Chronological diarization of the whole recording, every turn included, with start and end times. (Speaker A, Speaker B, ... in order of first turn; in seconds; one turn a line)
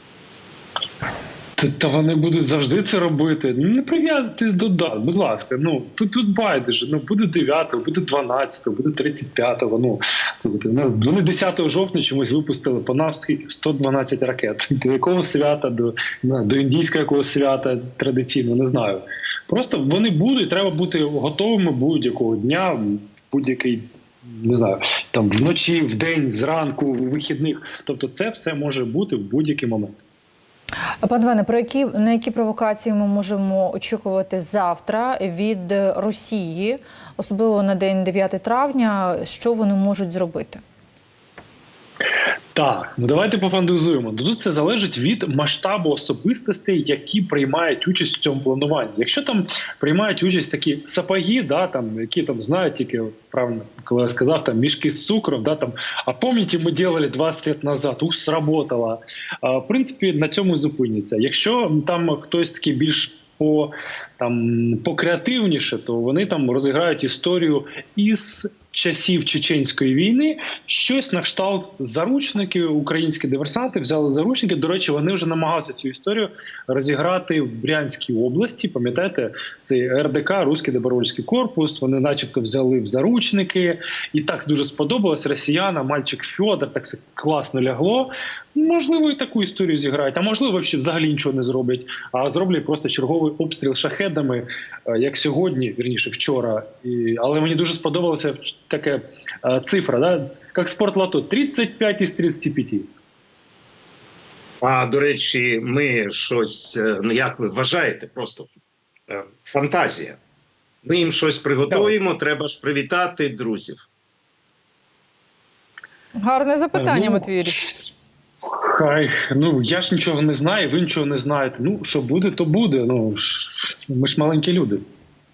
Speaker A: 1.6-30.0
Speaker B: 31.0-40.6
Speaker A: 42.5-102.9
Speaker C: 104.6-108.5
Speaker C: 109.1-110.2
Speaker C: 110.8-113.8
Speaker B: 116.2-117.7
Speaker A: 116.7-117.7
Speaker A: 118.4-124.8